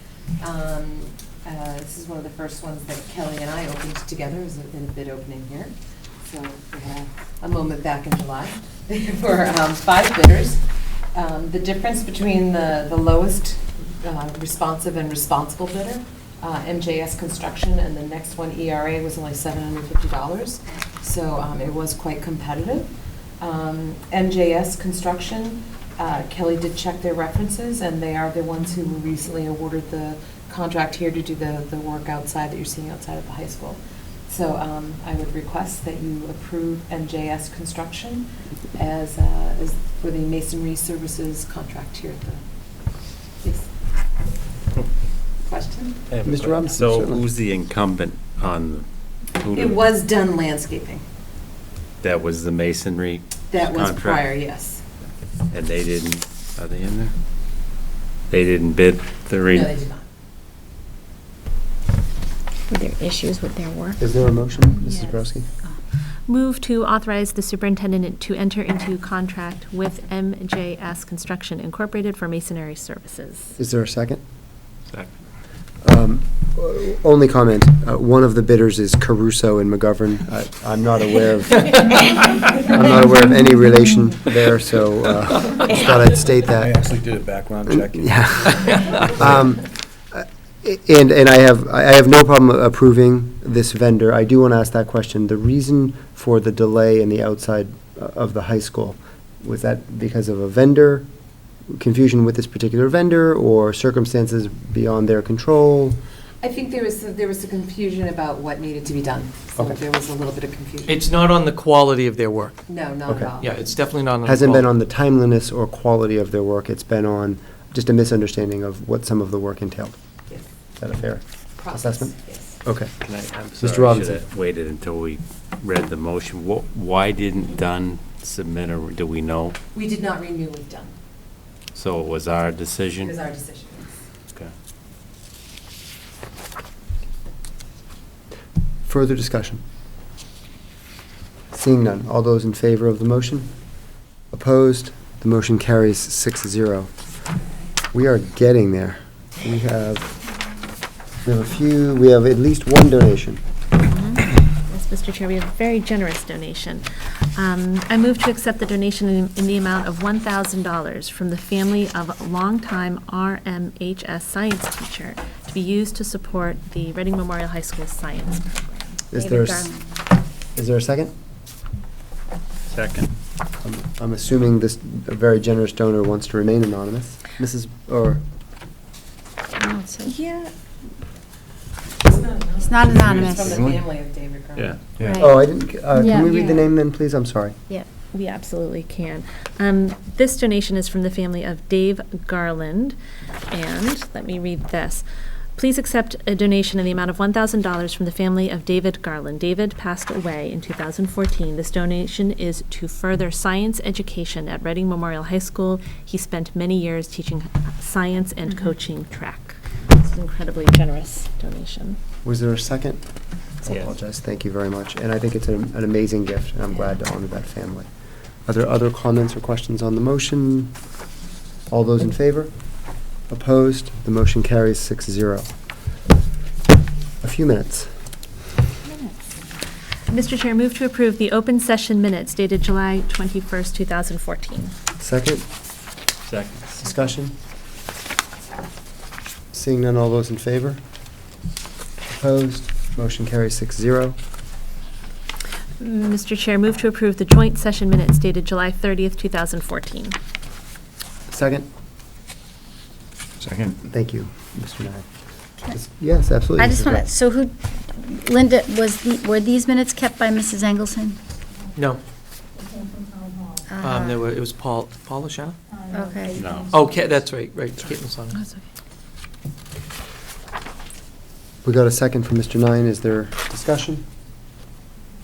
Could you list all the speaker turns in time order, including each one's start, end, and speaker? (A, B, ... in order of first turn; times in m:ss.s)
0:00.4-0:10.6 A
0:11.1-0:22.9 A
0:23.4-0:42.4 A
0:43.4-0:43.7 A
0:45.4-0:46.0 A
0:46.1-0:49.8 B
0:46.2-0:47.2 C
0:49.5-0:51.0 A
0:52.0-0:54.3 B
0:53.5-0:54.8 A
0:55.5-0:57.1 B
0:58.3-0:59.7 B
0:59.5-1:00.0 A
1:02.7-1:04.0 D
1:04.0-1:05.4 C
1:04.8-1:05.2 E
1:06.3-1:13.5 E
1:13.6-1:14.2 C
1:15.8-1:26.7 C
1:26.5-1:29.4 F
1:27.7-1:41.1 C
1:41.7-1:46.0 C
1:46.4-1:51.0 A
1:50.9-1:52.5 G
1:52.7-1:53.8 A
1:53.4-1:54.7 G
1:54.2-2:00.0 C
2:00.8-2:02.1 C
2:01.6-2:02.6 A
2:02.6-2:02.9 C
2:03.0-2:09.6 B
2:03.6-2:04.2 C
2:09.7-2:10.9 A
2:11.7-2:13.2 B
2:13.0-2:13.9 A
2:18.8-2:19.6 C
2:21.5-2:23.5 C
2:24.3-2:26.9 C
2:27.9-2:30.1 C
2:31.2-2:33.4 C
2:33.8-2:48.9 E
2:49.1-2:49.7 C
2:49.1-2:49.8 D
2:50.6-2:51.1 C
2:52.7-2:53.1 B
2:53.6-2:58.2 C
2:59.5-3:00.1 D
3:00.0-3:00.5 E
3:02.1-3:04.7 A
3:02.6-3:03.8 D
3:05.0-3:05.2 F
3:05.0-3:05.4 D
3:05.2-3:07.6 C
3:06.0-3:06.3 D
3:08.1-3:13.0 E
3:13.5-3:15.0 E
3:15.6-3:32.0 E
3:32.2-3:33.0 C
3:33.6-3:37.9 C
3:38.4-3:40.7 C
3:41.7-3:42.5 C
3:43.3-3:45.5 C
3:47.2-3:47.9 C
3:48.9-3:49.1 E
3:50.1-3:54.7 E
3:55.0-3:55.4 C
3:56.3-3:56.6 B
3:56.7-3:57.3 C
3:59.5-4:00.8 C
4:02.0-4:04.2 C
4:05.8-4:10.2 E
4:11.3-4:11.7 C
4:13.5-4:13.7 F
4:13.9-4:15.0 C
4:15.7-4:17.1 C
4:16.6-4:21.2 D
4:23.7-4:24.2 D
4:23.8-4:25.6 G
4:25.9-4:26.5 D
4:26.4-4:26.7 B
4:26.7-4:28.4 G
4:28.3-4:28.6 E
4:31.6-4:34.0 C